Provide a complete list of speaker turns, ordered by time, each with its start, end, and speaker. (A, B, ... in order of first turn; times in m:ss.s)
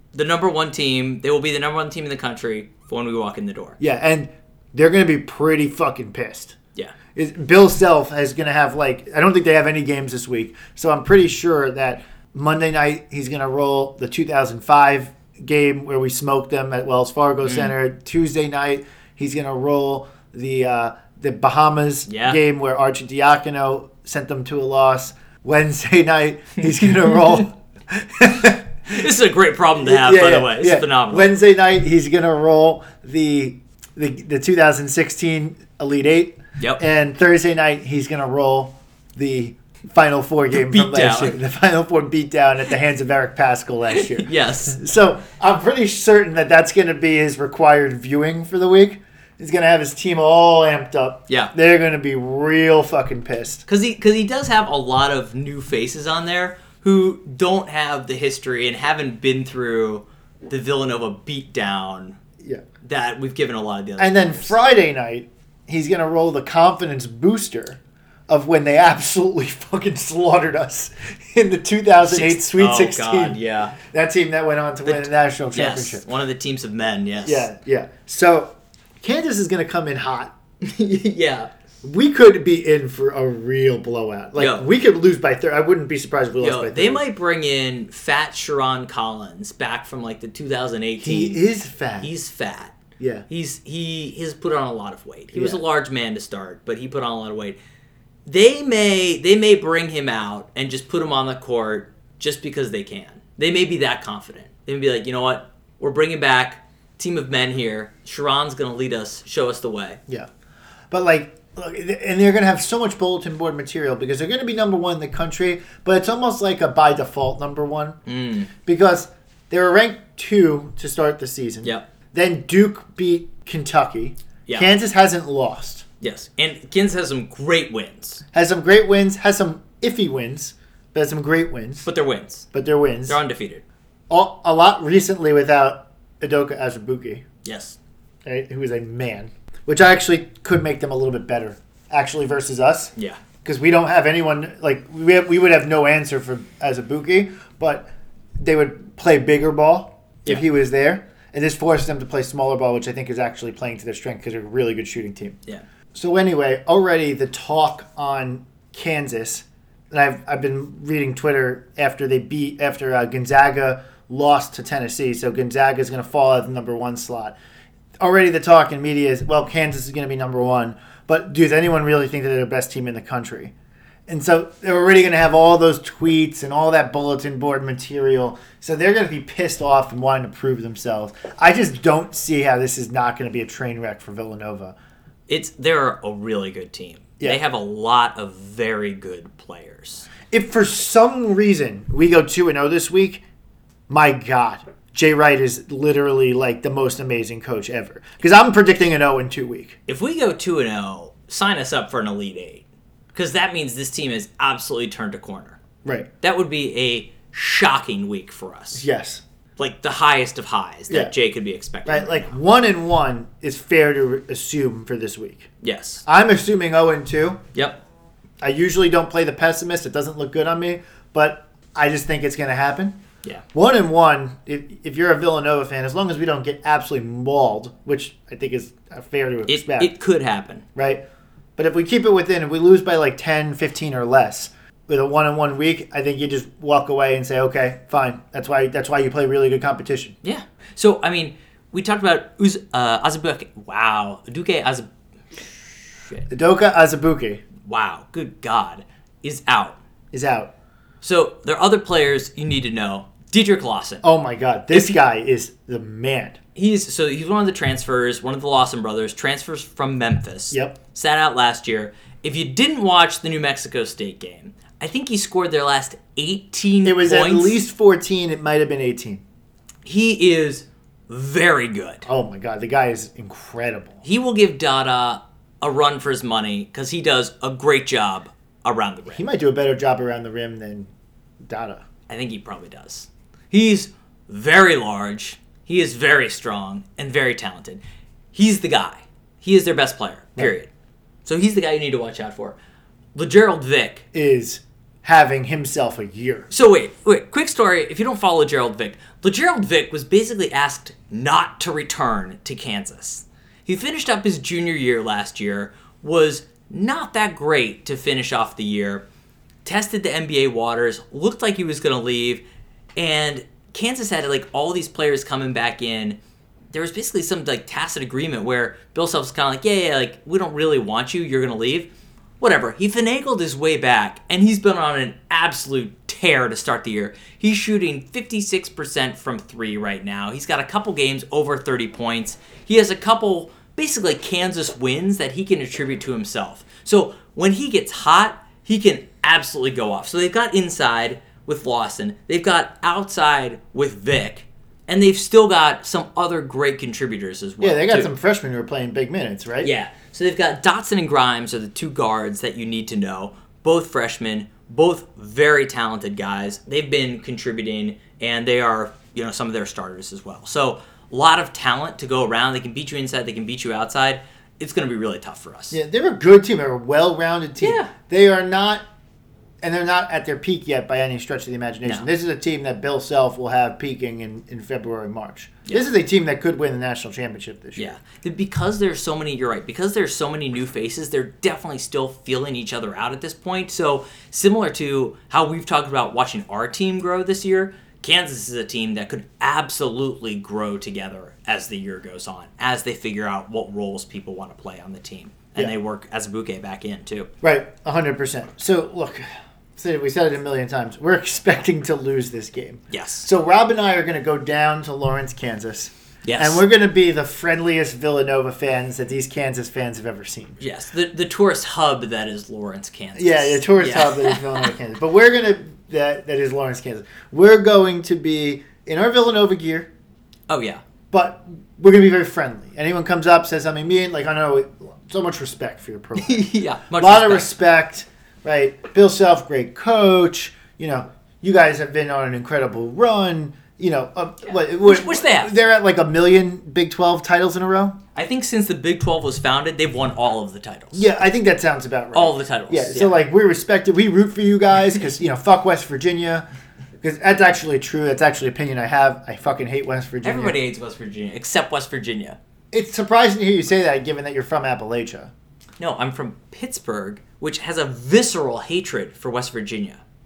0:00.1-0:03.8 A
0:03.8-0:06.6 B
0:07.1-0:28.7 B
0:17.4-0:17.7 A
0:22.1-0:22.4 A
0:28.8-0:31.3 A
0:29.8-0:53.6 B
0:40.6-0:41.4 A
0:44.0-0:44.8 A
0:53.6-1:02.2 A
1:02.8-1:04.6 A
1:04.0-1:16.0 B
1:12.0-1:13.8 A
1:14.8-1:17.5 A
1:17.2-1:20.3 B
1:20.6-1:21.5 A
1:21.8-1:27.0 B
1:24.4-1:24.7 A
1:26.4-1:31.4 A
1:31.0-1:32.1 B
1:32.0-1:37.6 A
1:33.0-1:33.2 B
1:35.3-1:35.6 B
1:38.2-1:50.0 A
1:50.9-1:58.0 B
1:58.1-1:58.5 A
1:58.6-2:05.8 B
2:06.0-2:08.2 A
2:08.3-2:11.8 B
2:11.8-2:12.5 A
2:12.5-2:13.2 B
2:13.1-2:13.6 A
2:14.1-2:17.2 B
2:17.4-2:17.8 A
2:18.2-2:35.4 B
2:35.9-2:47.4 B
2:48.0-2:53.5 B
2:54.1-3:04.7 B
3:05.3-3:10.1 A
3:10.3-3:13.2 B
3:13.9-3:19.8 B
3:19.9-3:25.6 A
3:25.8-3:26.1 B
3:26.2-3:28.8 A
3:28.7-3:29.2 B
3:29.6-3:32.3 A
3:31.8-3:35.5 B
3:35.6-3:36.0 A
3:36.0-3:37.4 B
3:37.5-3:37.8 A
3:38.4-3:43.0 B
3:43.5-3:49.9 B
3:49.5-3:50.6 A
3:50.7-3:51.0 B
3:51.6-4:00.1 B
4:00.2-4:06.3 A
4:06.3-4:07.4 B
4:07.6-4:09.8 A
4:10.1-4:10.5 B
4:11.0-4:14.0 A
4:14.0-4:16.4 B
4:14.7-4:15.0 A
4:16.5-4:27.6 A
4:20.5-4:20.8 B
4:26.8-4:29.2 B
4:29.8-4:32.1 A
4:32.1-4:34.0 B
4:34.0-4:39.2 A
4:39.1-4:40.9 B
4:41.4-4:41.8 B
4:42.1-4:47.8 A
4:48.3-4:50.7 A
4:51.2-4:52.6 A
4:53.1-4:54.0 A
4:54.1-4:56.5 B
4:56.5-5:09.0 A
5:09.6-5:12.4 A
5:13.0-5:16.2 A
5:16.7-5:48.1 A
5:47.6-5:49.7 B
5:49.6-6:05.8 A
6:05.7-6:08.8 B
6:07.6-6:07.9 A
6:09.6-6:17.9 B
6:17.8-6:37.3 A
6:37.4-6:39.2 B
6:39.8-6:50.6 B
6:42.9-6:43.3 A
6:46.2-6:46.6 A
6:50.6-6:54.7 A
6:53.1-6:59.9 B
7:00.5-7:00.8 A
7:01.1-7:18.0 B
7:06.2-7:07.5 A
7:14.8-7:15.5 A
7:18.1-7:21.0 A
7:20.9-7:26.4 B
7:22.1-7:23.2 A
7:27.0-7:30.6 B
7:30.2-7:32.4 A
7:32.7-7:35.3 B
7:35.8-7:40.0 A